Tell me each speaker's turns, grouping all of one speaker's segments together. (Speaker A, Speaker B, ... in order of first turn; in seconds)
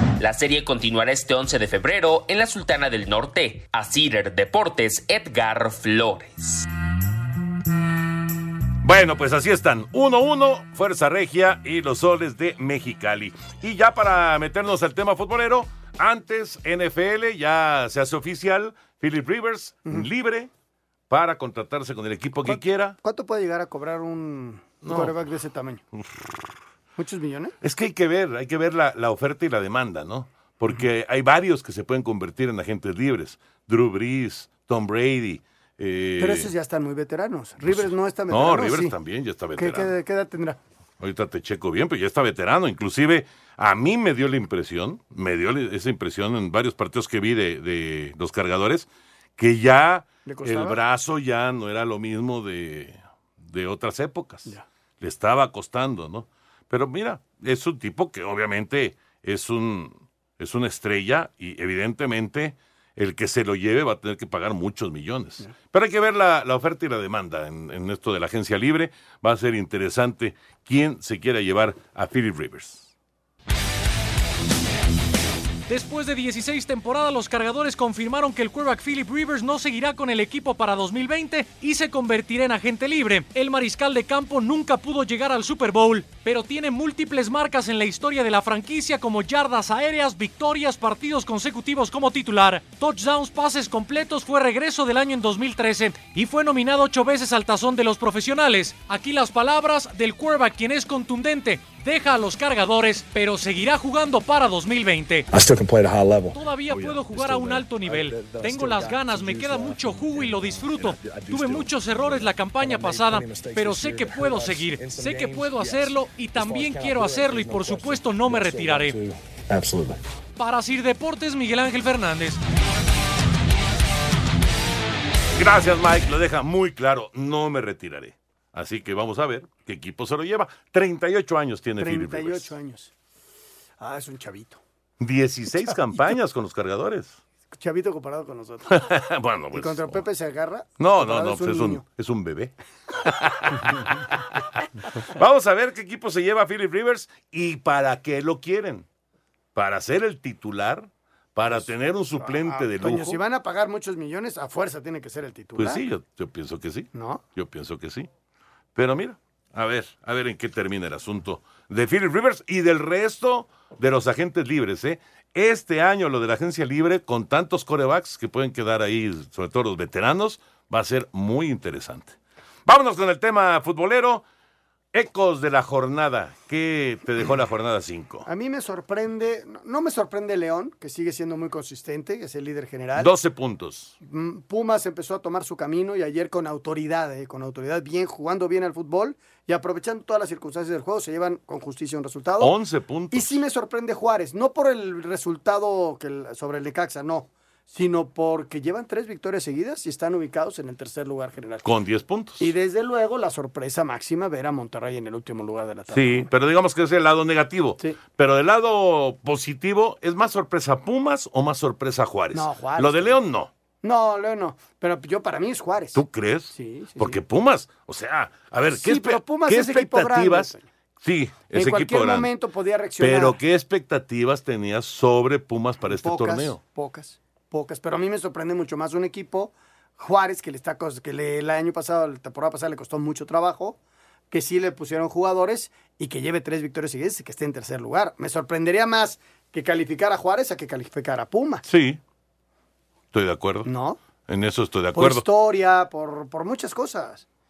Speaker A: 0.2-6.7
Speaker B: 8.8-20.5, 21.1-22.9, 24.8-25.1, 27.6-36.5, 37.7-39.9, 41.0-72.9, 125.4-132.5, 135.0-137.2, 138.7-140.0, 140.8-143.9, 145.1-148.8, 149.5-153.2, 155.6-158.1, 158.8-172.1, 172.7-174.2, 174.9-178.2, 183.0-183.9, 192.4-193.4, 201.6-202.5, 205.9-213.5, 215.9-222.3, 223.0-226.6, 241.6-242.0, 243.1-243.7, 244.3-245.2
Speaker C: 22.4-25.8, 27.0-27.5, 36.2-38.9, 39.6-40.6, 50.2-50.8, 131.8-132.9, 133.8-134.6, 137.5-138.8, 139.5-141.8, 152.2-155.8, 156.9-157.2, 178.2-183.1, 184.0-192.5, 193.1-201.7, 202.4-206.3, 212.3-213.2, 213.8-217.2, 218.7-220.6, 221.5-223.4, 225.9-233.8, 234.3-241.6, 243.6-244.0, 244.9-247.2
Speaker D: 75.7-105.2, 106.3-119.0, 120.4-122.4
Speaker E: 105.3-120.0